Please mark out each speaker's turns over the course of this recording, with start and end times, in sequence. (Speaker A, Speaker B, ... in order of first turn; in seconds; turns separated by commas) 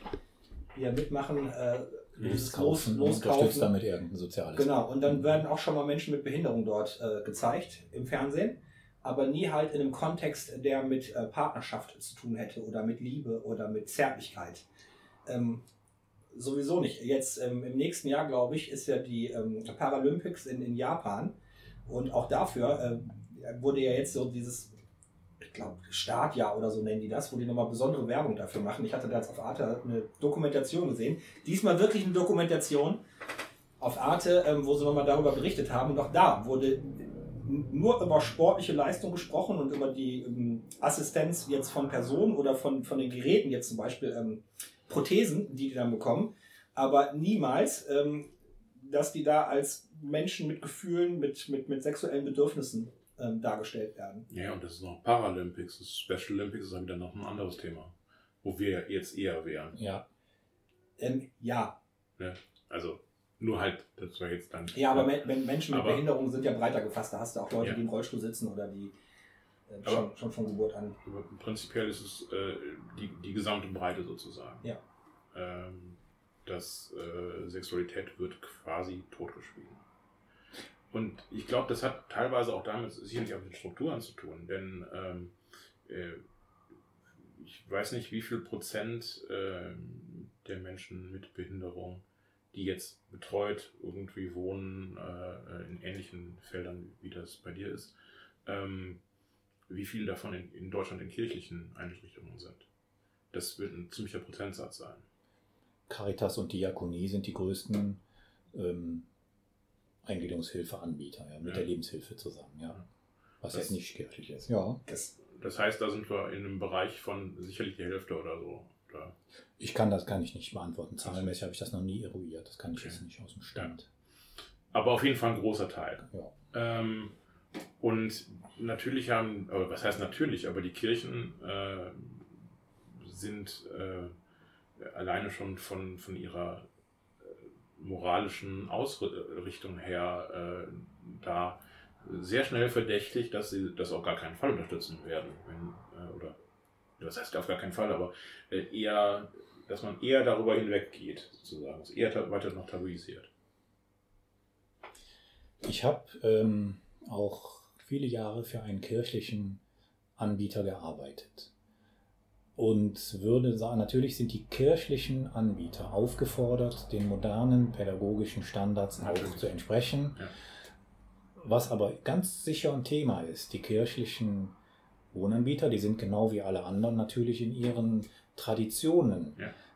Speaker A: 0.7-3.7, Speaker B: 2.2-5.2, Speaker A: 4.5-14.7, Speaker A: 15.2-15.6, Speaker A: 16.3-21.3, Speaker A: 21.9-24.7, Speaker A: 25.4-33.0, Speaker A: 33.8-54.3, Speaker C: 54.3-59.8, Speaker B: 59.8-60.0, Speaker A: 61.0-61.8, Speaker C: 62.2-66.0, Speaker A: 64.8-68.9, Speaker A: 69.7-71.0, Speaker C: 71.0-74.7, Speaker C: 75.3-79.8, Speaker C: 80.9-85.3, Speaker C: 85.8-86.2, Speaker C: 87.2-97.9, Speaker C: 98.5-99.0, Speaker C: 99.7-102.7, Speaker C: 103.3-105.0, Speaker B: 105.9-108.0, Speaker B: 108.5-109.1, Speaker B: 110.0-112.8, Speaker B: 113.4-114.8, Speaker A: 114.9-115.1, Speaker C: 115.2-119.2, Speaker B: 119.6-123.9, Speaker C: 121.0-121.3, Speaker C: 122.8-123.0, Speaker C: 124.7-127.1, Speaker B: 126.1-126.3, Speaker C: 127.8-134.1, Speaker C: 134.8-136.7, Speaker C: 137.2-146.4, Speaker C: 147.0-153.3, Speaker B: 155.6-159.6, Speaker B: 160.2-161.5, Speaker B: 162.6-170.2, Speaker C: 169.0-169.4, Speaker B: 171.3-174.5, Speaker B: 175.1-179.4